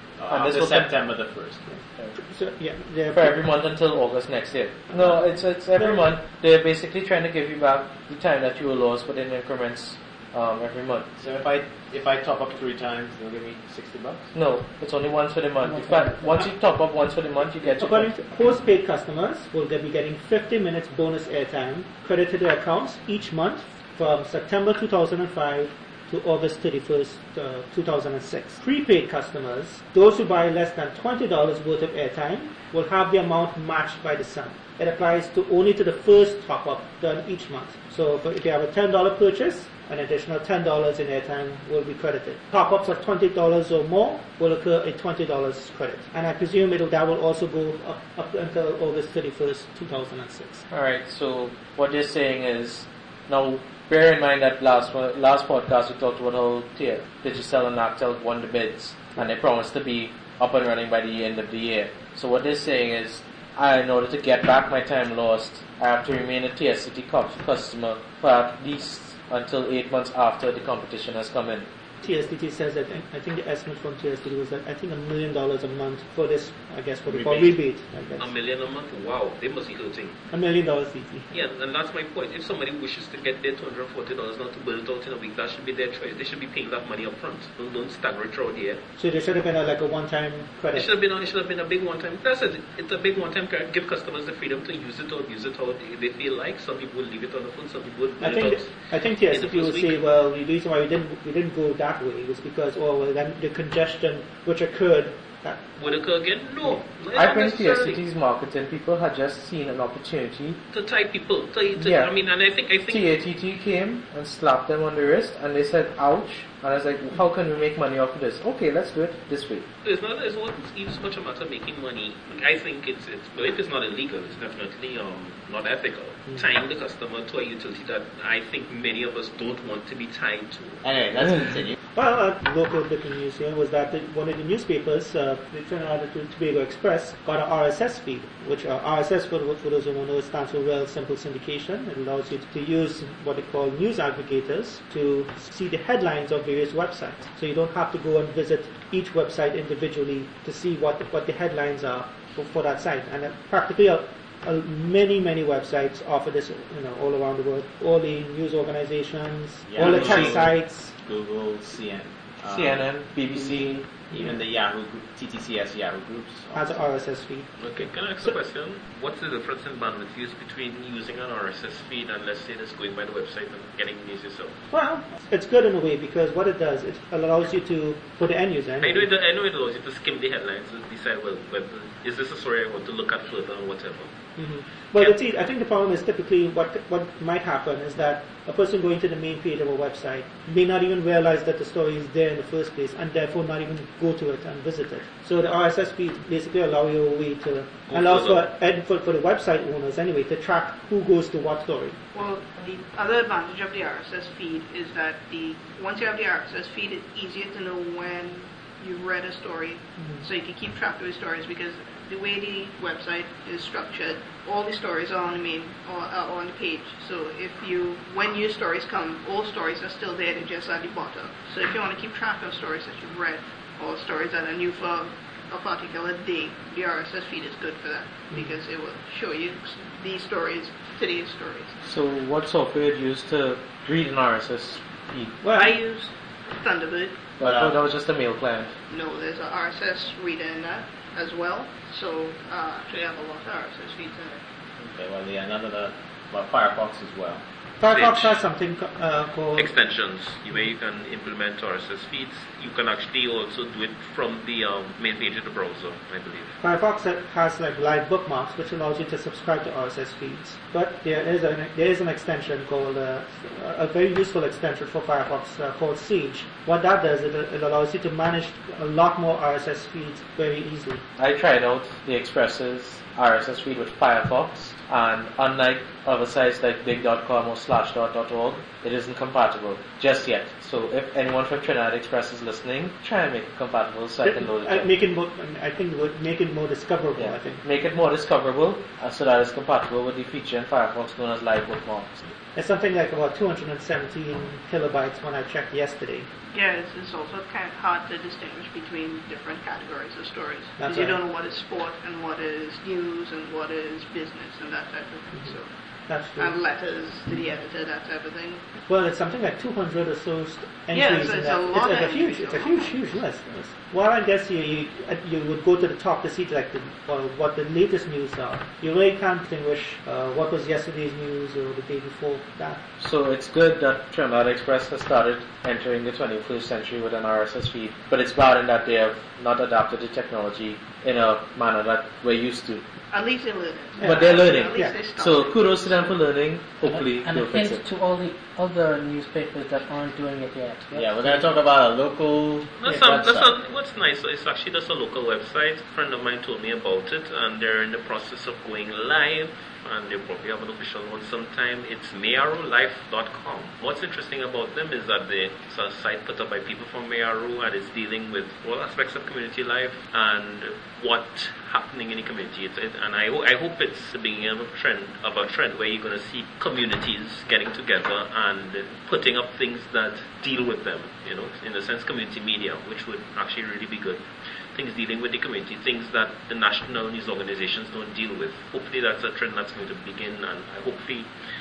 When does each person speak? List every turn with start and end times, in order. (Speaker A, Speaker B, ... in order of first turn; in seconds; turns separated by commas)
Speaker A: 0.2-1.6, Speaker B: 0.3-0.9, Speaker C: 1.7-3.4, Speaker B: 3.1-11.1, Speaker A: 4.9-5.2, Speaker A: 11.2-14.3, Speaker B: 14.3-18.1, Speaker D: 15.6-16.4, Speaker C: 17.8-50.6, Speaker B: 50.7-71.7, Speaker C: 72.0-78.3, Speaker A: 77.1-77.5, Speaker E: 78.2-80.2, Speaker C: 80.3-81.3, Speaker E: 81.3-88.8, Speaker C: 89.0-90.9, Speaker E: 90.7-100.0, Speaker C: 98.2-105.6, Speaker E: 105.8-108.0, Speaker B: 107.1-110.6, Speaker E: 110.7-113.1, Speaker B: 111.8-112.1, Speaker B: 112.9-119.7, Speaker E: 119.8-130.9, Speaker A: 130.8-131.8, Speaker C: 131.9-160.9, Speaker A: 159.7-162.8, Speaker B: 159.8-160.4, Speaker B: 162.5-164.0, Speaker A: 164.1-166.8, Speaker C: 166.5-167.6, Speaker E: 167.6-174.6, Speaker C: 174.7-179.1, Speaker E: 178.8-184.1, Speaker C: 184.4-202.0, Speaker E: 197.9-198.5, Speaker F: 202.1-231.8, Speaker C: 210.0-210.3, Speaker B: 231.8-235.4, Speaker F: 235.4-237.3, Speaker C: 235.4-235.7, Speaker B: 237.4-238.8, Speaker A: 237.4-237.8, Speaker F: 238.9-244.4, Speaker A: 244.8-247.4, Speaker C: 247.8-249.7, Speaker E: 247.9-248.4, Speaker E: 249.6-256.6, Speaker C: 256.6-271.0, Speaker B: 271.2-284.9, Speaker C: 284.2-287.6, Speaker B: 287.2-292.2, Speaker C: 292.6-296.3, Speaker F: 296.5-305.8, Speaker C: 300.8-301.2, Speaker C: 306.1-306.6, Speaker F: 306.4-308.7, Speaker C: 308.9-322.8, Speaker F: 310.9-313.2, Speaker B: 323.0-332.8, Speaker F: 333.1-336.2, Speaker C: 334.0-335.0, Speaker B: 334.0-337.8, Speaker D: 336.8-341.4, Speaker A: 340.9-343.6, Speaker E: 342.8-381.3